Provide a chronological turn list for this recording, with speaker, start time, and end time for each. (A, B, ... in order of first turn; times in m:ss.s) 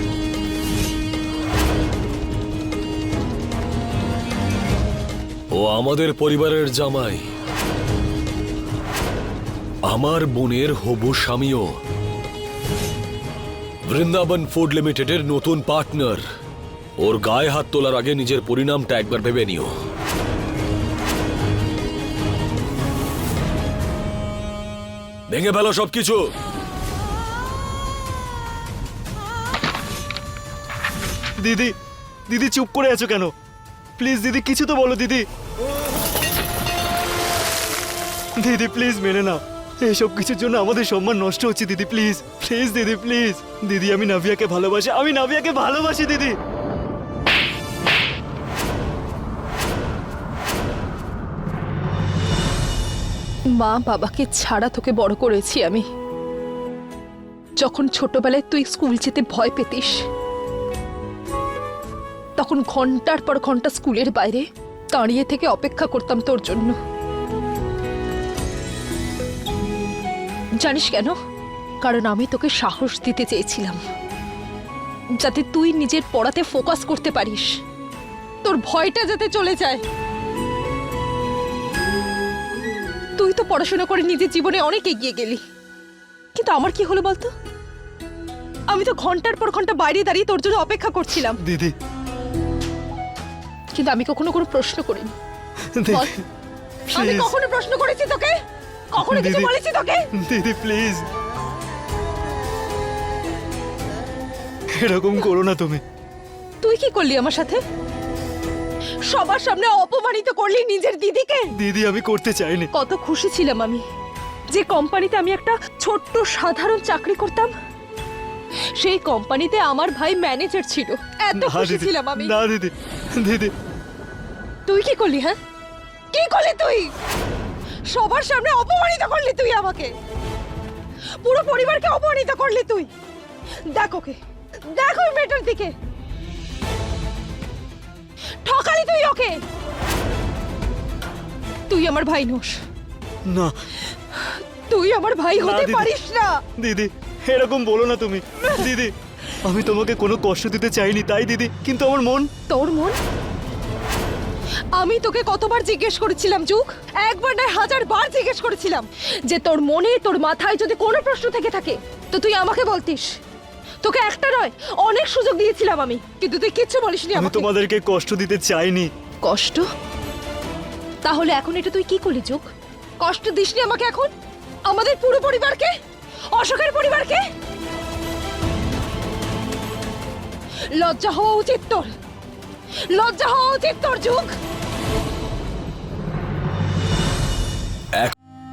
0:05.5-0:07.3 A
0:09.9-0:11.8 A
0:13.8-0:16.2 A
0:17.0-0:19.7 A
0:25.3-0:26.2 A
0:31.4-0:31.7 B
0:32.3-0:33.3 B
0:34.0-0:35.2 B
0:38.4-0:46.4 B
0:53.6-0:55.8 C
0:57.6-1:00.0 C
1:02.4-1:06.8 C
1:10.6-1:11.2 C
1:11.8-1:13.8 C
1:15.2-1:17.5 C
1:18.4-1:19.8 C
1:23.2-1:25.4 C
1:26.3-1:27.3 C
1:28.7-1:31.4 C
1:31.4-1:31.7 B
1:33.7-1:35.1 C
1:35.7-1:36.2 B
1:36.9-1:37.3 B
1:36.9-1:38.4 C
1:38.9-1:40.0 C
1:39.0-1:39.5 B
1:40.2-1:41.0 B
1:44.8-1:45.8 B
1:46.6-1:47.6 C
1:49.1-1:51.5 C
1:51.6-1:52.7 B
1:52.7-1:53.8 C
1:54.5-1:57.5 C
1:58.8-2:02.3 C
2:01.3-2:03.5 B
2:04.7-2:05.4 C
2:06.1-2:06.9 C
2:07.9-2:09.9 C
2:11.2-2:12.9 C
2:13.7-2:14.2 C
2:14.7-2:15.7 C
2:18.4-2:19.4 C
2:21.7-2:22.6 C
2:24.2-2:26.3 C
2:25.4-2:25.9 B
2:26.6-2:32.3 B
2:32.5-2:33.0 C
2:34.8-2:43.1 C
2:43.8-2:47.5 C
2:47.1-2:48.9 B
2:49.2-2:49.7 C
2:51.0-2:52.5 C
2:53.0-2:54.1 C
2:54.7-2:55.7 C
2:56.3-2:57.2 C
3:00.8-3:01.9 C
3:02.9-3:04.3 C